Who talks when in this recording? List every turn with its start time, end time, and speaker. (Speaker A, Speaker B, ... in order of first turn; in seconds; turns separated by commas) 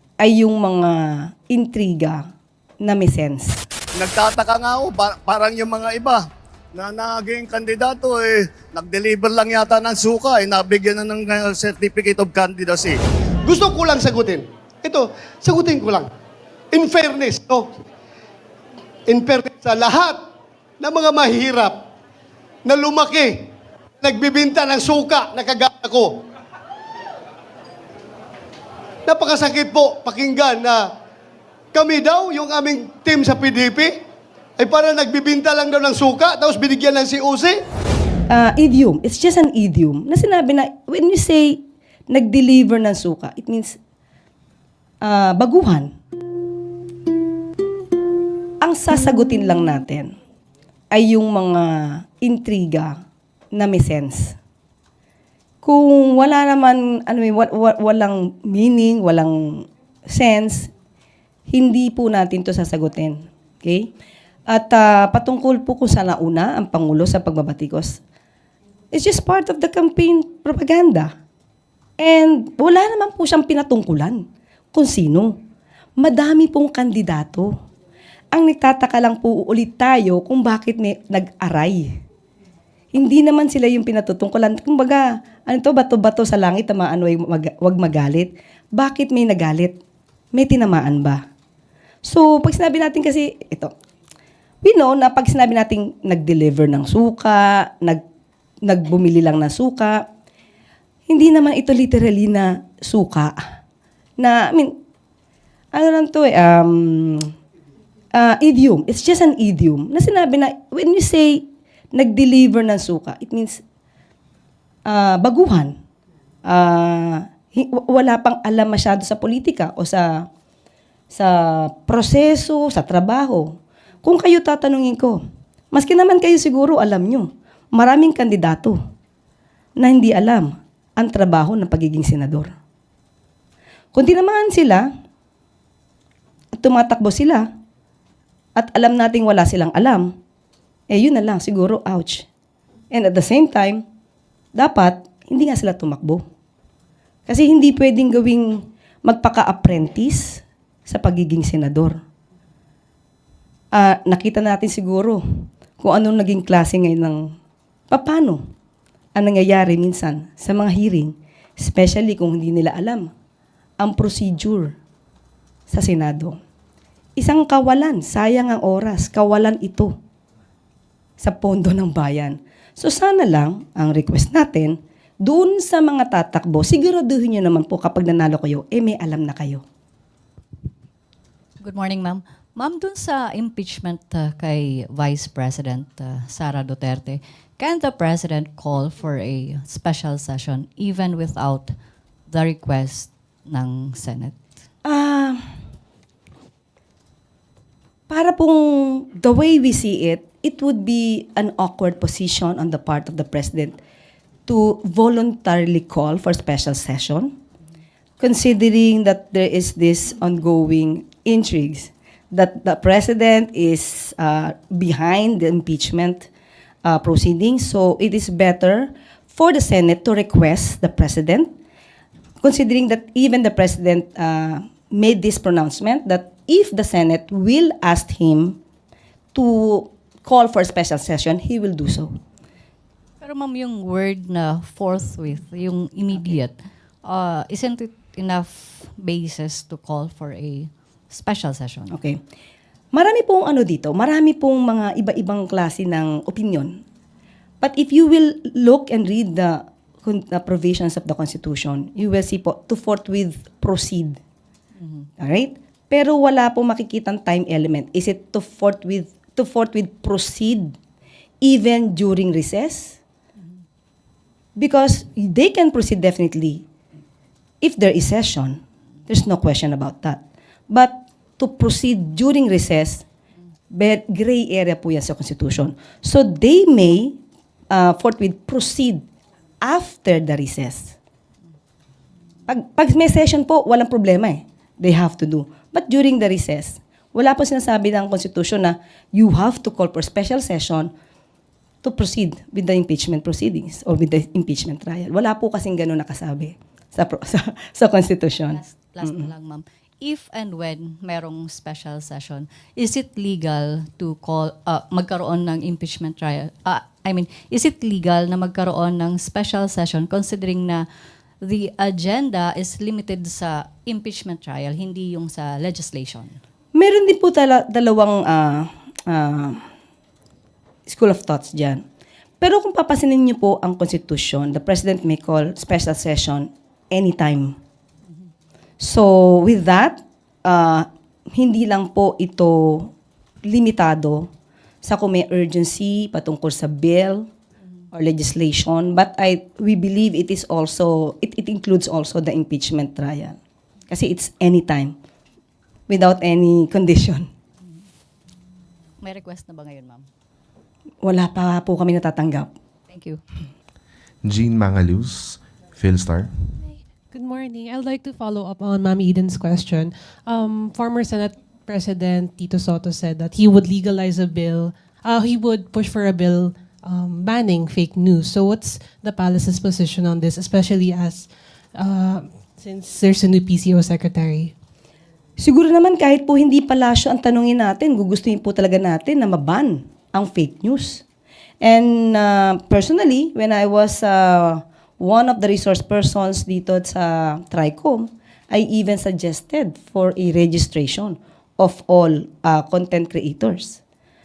Speaker A: 0.2-2.2, Speaker A: 2.8-3.6, Speaker B: 4.0-13.0, Speaker C: 13.4-16.1, Speaker C: 16.7-17.7, Speaker C: 19.1-20.3, Speaker C: 20.8-21.8, Speaker C: 22.6-23.5, Speaker C: 24.0-26.2, Speaker C: 29.1-30.9, Speaker C: 31.7-34.0, Speaker C: 34.6-37.6, Speaker A: 38.3-43.8, Speaker A: 45.0-45.9, Speaker A: 48.6-50.1, Speaker A: 50.9-53.0, Speaker A: 53.5-54.4, Speaker A: 55.6-60.7, Speaker A: 61.5-63.9, Speaker A: 64.5-68.0, Speaker A: 68.9-71.1, Speaker A: 72.0-75.3, Speaker A: 76.0-77.5, Speaker A: 78.3-82.0, Speaker A: 82.9-89.8, Speaker A: 90.3-91.2, Speaker A: 92.0-93.7, Speaker A: 94.6-98.0, Speaker A: 98.6-100.0, Speaker A: 101.1-103.4, Speaker A: 104.2-104.7, Speaker A: 105.7-107.3, Speaker A: 108.1-113.6, Speaker A: 114.9-115.8, Speaker A: 116.5-120.3, Speaker A: 121.1-128.8, Speaker A: 129.8-132.5, Speaker A: 133.9-134.9, Speaker A: 136.6-137.5, Speaker A: 138.6-140.1, Speaker A: 140.9-142.3, Speaker A: 142.9-143.8, Speaker A: 144.6-146.2, Speaker A: 147.3-152.0, Speaker A: 153.7-155.2, Speaker A: 155.8-157.3, Speaker A: 157.9-158.4, Speaker A: 159.2-163.1, Speaker A: 163.8-164.8, Speaker A: 165.7-166.4, Speaker A: 167.2-169.9, Speaker A: 171.2-179.6, Speaker D: 181.6-191.7, Speaker D: 192.3-194.4, Speaker A: 194.8-195.4, Speaker A: 198.1-203.8, Speaker A: 204.5-207.3, Speaker A: 208.2-216.3, Speaker A: 216.8-221.5, Speaker A: 222.4-228.6, Speaker A: 229.3-232.2, Speaker D: 233.2-241.9, Speaker A: 241.9-242.2, Speaker A: 242.9-246.8, Speaker A: 247.6-254.2, Speaker D: 254.8-255.1, Speaker A: 255.2-260.8, Speaker A: 261.4-263.0, Speaker A: 264.6-266.6, Speaker A: 267.6-273.1, Speaker A: 273.7-277.2, Speaker A: 277.7-279.0, Speaker A: 279.6-281.0, Speaker A: 282.5-290.9, Speaker A: 291.8-299.3, Speaker D: 298.5-310.8, Speaker D: 311.4-316.4, Speaker A: 316.8-319.6, Speaker A: 320.9-321.8, Speaker A: 322.4-327.6, Speaker A: 328.8-332.9, Speaker A: 333.4-334.3, Speaker A: 334.8-337.3, Speaker A: 337.9-343.4, Speaker A: 343.9-344.9, Speaker A: 345.9-347.3, Speaker D: 349.0-350.1, Speaker A: 351.0-352.5, Speaker D: 352.9-353.2, Speaker E: 354.2-356.6, Speaker F: 357.1-374.5, Speaker A: 375.4-381.0, Speaker A: 381.6-393.8